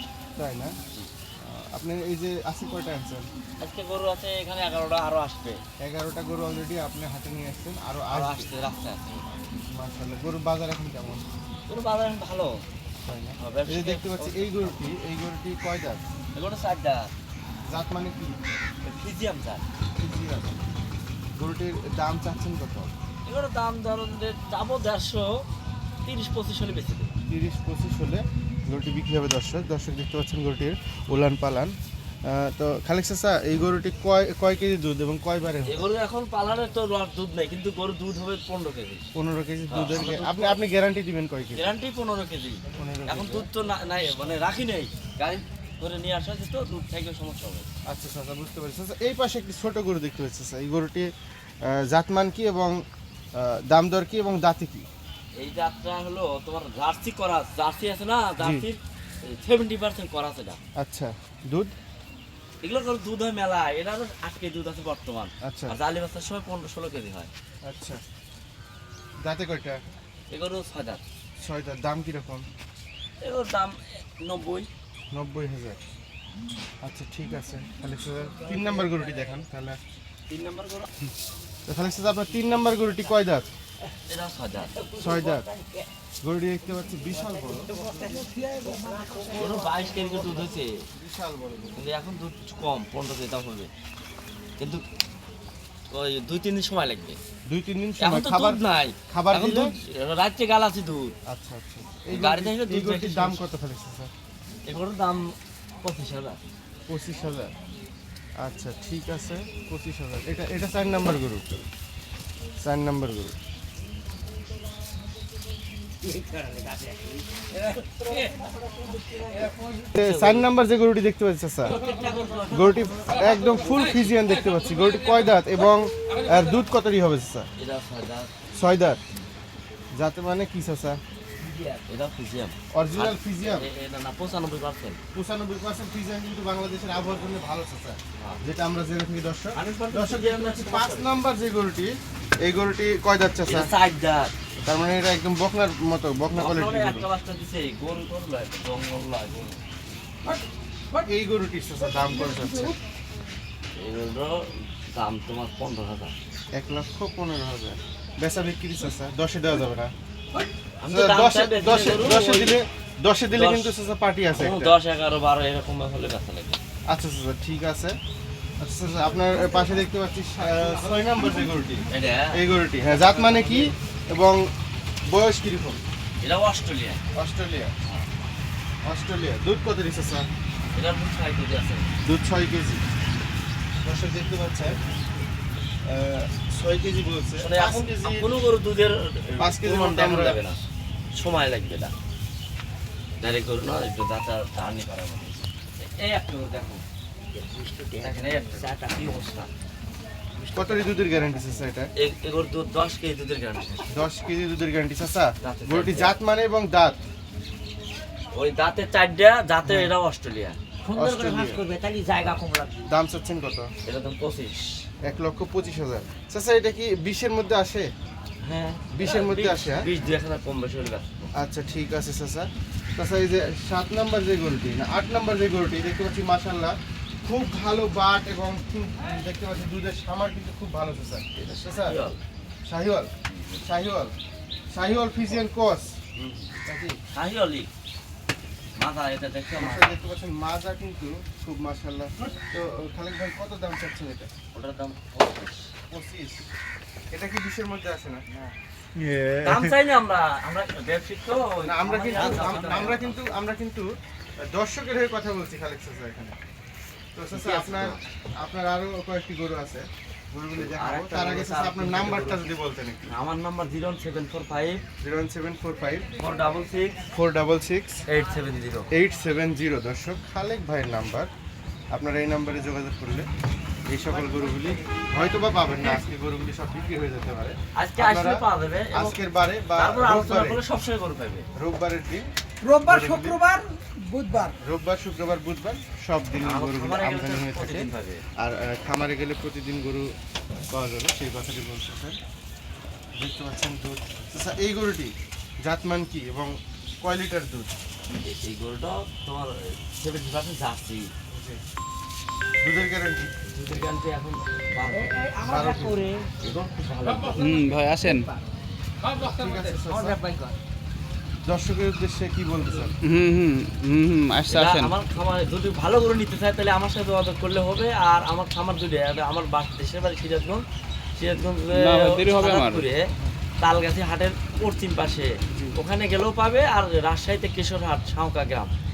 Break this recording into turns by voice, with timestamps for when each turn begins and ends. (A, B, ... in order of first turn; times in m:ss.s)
0:00.4-0:00.8 A
0:01.4-0:03.3 A
0:03.6-0:05.6 B
0:05.8-0:08.5 A
0:08.1-0:09.3 B
0:09.7-0:11.3 A
0:11.7-0:12.6 B
0:13.0-0:16.0 A
0:13.4-0:14.8 B
0:16.3-0:17.1 B
0:17.7-0:18.4 A
0:18.8-0:19.6 B
0:20.0-0:20.6 A
0:21.4-0:22.9 A
0:23.3-0:25.4 B
0:26.0-0:27.1 B
0:27.3-0:31.7 A
0:32.3-0:35.8 A
0:35.7-0:39.0 B
0:39.1-0:41.7 A
0:39.7-0:40.6 B
0:41.6-0:47.7 B
0:42.8-0:43.5 A
0:47.9-0:51.1 A
0:51.6-0:52.8 A
0:53.4-0:54.9 A
0:55.4-1:00.6 B
0:58.4-0:58.6 A
1:00.8-1:01.7 A
1:02.6-1:07.3 B
1:05.4-1:05.8 A
1:07.6-1:08.0 A
1:09.2-1:09.8 A
1:10.3-1:11.0 B
1:11.4-1:12.4 A
1:13.2-1:14.7 B
1:15.1-1:15.8 A
1:16.8-1:19.8 A
1:20.3-1:20.9 B
1:21.7-1:23.5 A
1:24.1-1:24.8 B
1:24.8-1:25.9 C
1:25.0-1:25.5 A
1:26.2-1:27.8 A
1:27.1-1:30.1 C
1:29.3-1:30.8 B
1:30.9-1:31.8 A
1:31.8-1:33.7 B
1:34.6-1:34.8 B
1:35.9-1:37.2 B
1:37.5-1:39.7 A
1:38.0-1:41.1 B
1:41.3-1:44.1 A
1:42.1-1:43.4 B
1:44.7-1:46.4 B
1:46.9-1:47.5 A
1:48.4-1:51.6 A
1:52.6-1:53.3 A
1:56.0-1:59.8 C
1:59.9-2:01.8 A
2:00.0-2:00.4 B
2:01.8-2:02.6 C
2:02.0-2:02.5 B
2:02.5-2:07.5 A
2:07.6-2:08.3 B
2:08.5-2:09.0 A
2:09.9-2:11.0 A
2:11.9-2:15.0 B
2:12.7-2:13.7 A
2:15.1-2:21.9 A
2:18.2-2:18.4 B
2:19.5-2:21.2 B
2:22.4-2:23.7 A
2:23.5-2:24.3 B
2:24.6-2:27.1 A
2:26.3-2:29.6 B
2:30.9-2:32.8 A
2:33.8-2:36.1 B
2:36.5-2:39.9 A
2:40.8-2:42.6 B
2:40.9-2:44.8 A
2:43.3-2:43.7 B
2:44.4-2:46.6 B
2:46.9-2:48.0 A
2:48.6-2:54.5 A
2:51.9-2:53.7 B
2:55.1-2:55.8 A
2:56.2-2:57.0 B
2:57.1-2:57.7 A
2:58.8-3:00.3 A
3:00.7-3:01.9 B
3:02.0-3:02.8 A
3:03.8-3:04.8 A
3:05.8-3:08.3 A
3:07.4-3:10.6 B
3:09.4-3:10.4 A
3:11.1-3:11.9 B
3:13.2-3:16.8 B
3:17.3-3:19.0 C
3:18.0-3:19.5 B
3:20.4-3:21.6 C
3:20.5-3:21.9 A
3:22.0-3:23.9 B
3:23.9-3:27.0 A
3:25.4-3:26.2 B
3:28.3-3:30.6 B
3:29.7-3:29.9 A
3:30.8-3:32.9 C
3:31.0-3:31.7 A
3:32.8-3:33.7 A
3:33.8-3:34.8 B
3:35.0-3:37.9 A
3:38.4-3:41.1 B
3:38.9-3:39.9 A
3:41.4-3:52.0 A
3:51.4-3:52.2 B
3:52.7-3:53.1 A
3:53.3-3:53.6 B
3:53.6-3:54.2 A
3:54.7-3:56.0 A
3:56.2-3:56.6 B
3:56.7-3:57.0 A
3:57.1-3:57.7 B
3:58.8-3:59.9 B
3:59.6-4:04.3 A
4:04.5-4:05.7 B
4:05.9-4:06.4 A
4:07.1-4:08.2 A
4:09.0-4:09.8 A
4:09.4-4:13.2 B
4:11.6-4:13.9 A
4:14.5-4:16.4 A
4:17.2-4:23.1 A
4:17.3-4:18.0 B
4:20.6-4:22.5 B
4:23.1-4:24.8 B
4:25.0-4:26.1 A
4:26.2-4:27.0 B
4:27.1-4:28.0 A
4:28.1-4:28.9 B
4:28.9-4:31.3 A
4:31.9-4:33.3 A
4:33.9-4:40.6 A
4:37.8-4:39.2 B
4:39.8-4:41.5 B
4:41.6-4:43.5 A
4:42.6-4:44.6 C
4:44.5-4:50.1 A
4:46.4-4:48.2 B
4:50.7-4:52.2 A
4:53.2-4:57.7 A
4:58.1-5:01.1 B
5:01.3-5:01.6 A
5:02.6-5:03.3 A
5:03.5-5:05.4 B
5:05.1-5:06.3 C
5:05.4-5:06.1 A
5:06.4-5:07.5 B
5:07.4-5:08.3 D
5:09.1-5:10.2 A
5:09.8-5:10.6 C
5:11.5-5:12.9 A
5:13.0-5:14.9 D
5:14.5-5:20.6 B
5:21.2-5:28.7 B
5:21.7-5:22.8 D
5:25.5-5:25.8 A